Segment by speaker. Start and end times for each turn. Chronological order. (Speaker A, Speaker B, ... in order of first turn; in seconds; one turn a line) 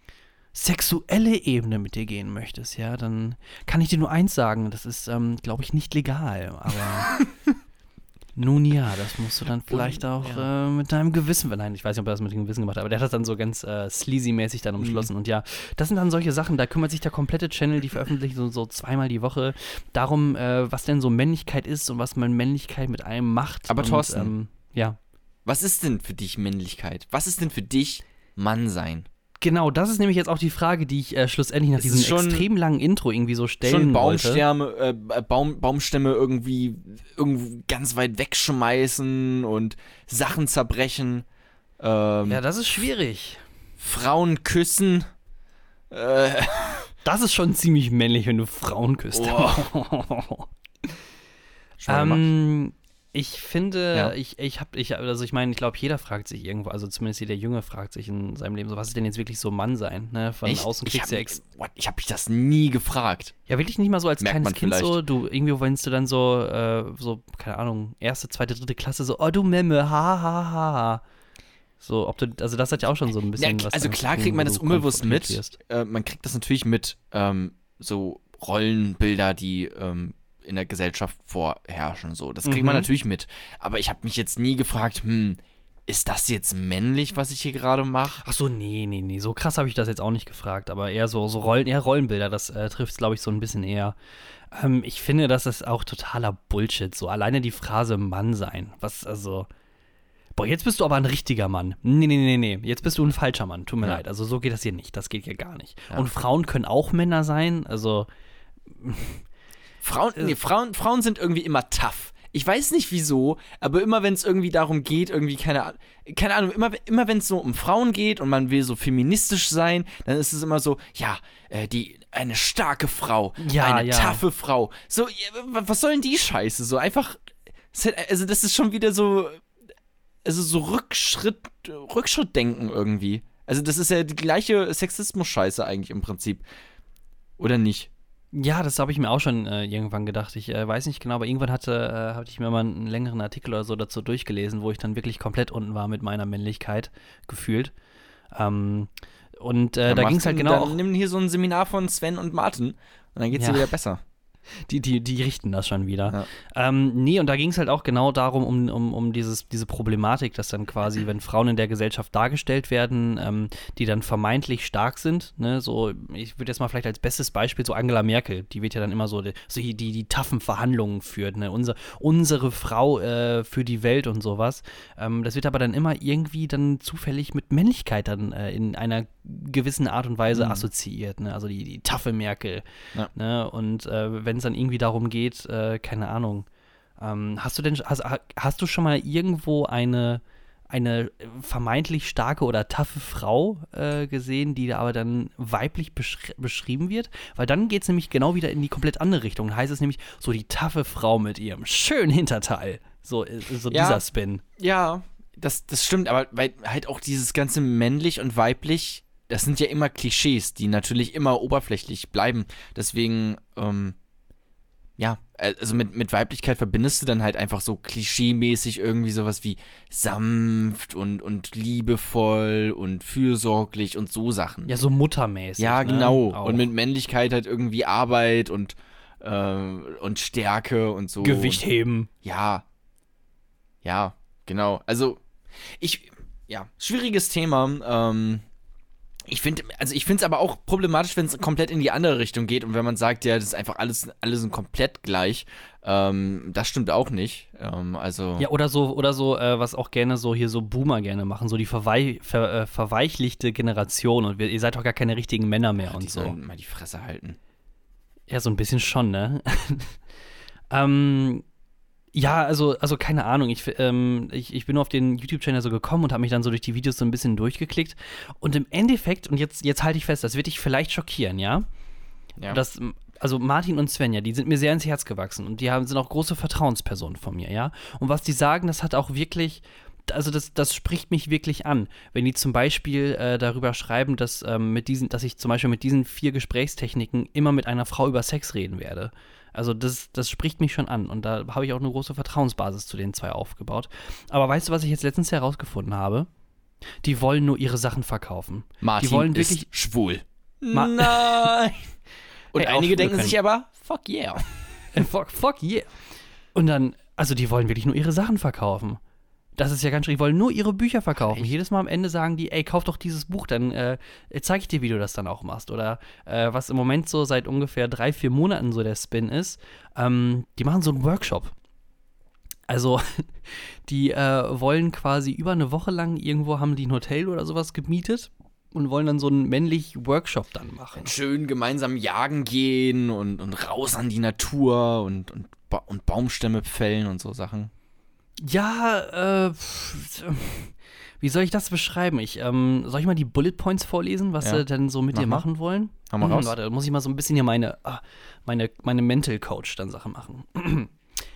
Speaker A: 0.5-7.2
Speaker A: 8.4-25.0
Speaker B: 9.7-10.5
Speaker B: 14.8-15.1
Speaker B: 23.7-24.3
Speaker B: 25.4-29.1
Speaker A: 29.4-34.4
Speaker B: 31.8-32.5
Speaker B: 33.6-41.3
Speaker B: 41.8-42.4
Speaker A: 42.3-43.4
Speaker B: 43.8-45.1
Speaker B: 45.9-46.9
Speaker A: 47.0-50.5
Speaker B: 49.1-49.7
Speaker B: 51.8-52.3
Speaker A: 51.9-61.4
Speaker B: 60.4-63.3
Speaker A: 63.5-71.0
Speaker B: 64.2-65.0
Speaker A: 71.8-75.6
Speaker B: 73.4-88.2
Speaker A: 82.4-82.9
Speaker A: 88.2-94.0
Speaker A: 94.5-99.5
Speaker A: 100.4-108.1
Speaker B: 105.9-106.2
Speaker A: 108.7-109.2
Speaker B: 109.8-127.2
Speaker A: 123.4-124.2
Speaker B: 127.7-129.4
Speaker B: 130.2-136.4
Speaker B: 137.4-137.9
Speaker A: 138.3-147.7
Speaker A: 148.3-150.8
Speaker B: 149.9-154.0
Speaker A: 153.3-153.7
Speaker A: 154.7-186.5
Speaker B: 180.3-180.7
Speaker A: 187.0-204.4
Speaker B: 203.7-204.0
Speaker B: 204.6-214.0
Speaker B: 215.0-224.7
Speaker A: 224.7-226.7
Speaker B: 225.6-231.6
Speaker A: 231.2-232.1
Speaker B: 232.2-232.7
Speaker B: 233.8-235.2
Speaker B: 235.8-238.4
Speaker B: 239.3-248.5
Speaker A: 248.4-256.4
Speaker B: 255.9-257.4
Speaker A: 258.3-260.0
Speaker A: 260.7-261.4
Speaker A: 262.1-271.7
Speaker B: 272.4-272.6
Speaker A: 272.5-296.3
Speaker A: 297.0-299.7
Speaker B: 298.8-301.9
Speaker A: 300.7-301.5
Speaker B: 302.5-304.5
Speaker A: 302.6-303.4
Speaker A: 304.9-305.9
Speaker A: 306.5-309.0
Speaker A: 309.6-321.5
Speaker B: 311.2-311.5
Speaker A: 322.7-331.1
Speaker B: 331.0-337.7
Speaker A: 338.4-350.9
Speaker B: 344.4-345.5
Speaker B: 346.1-346.5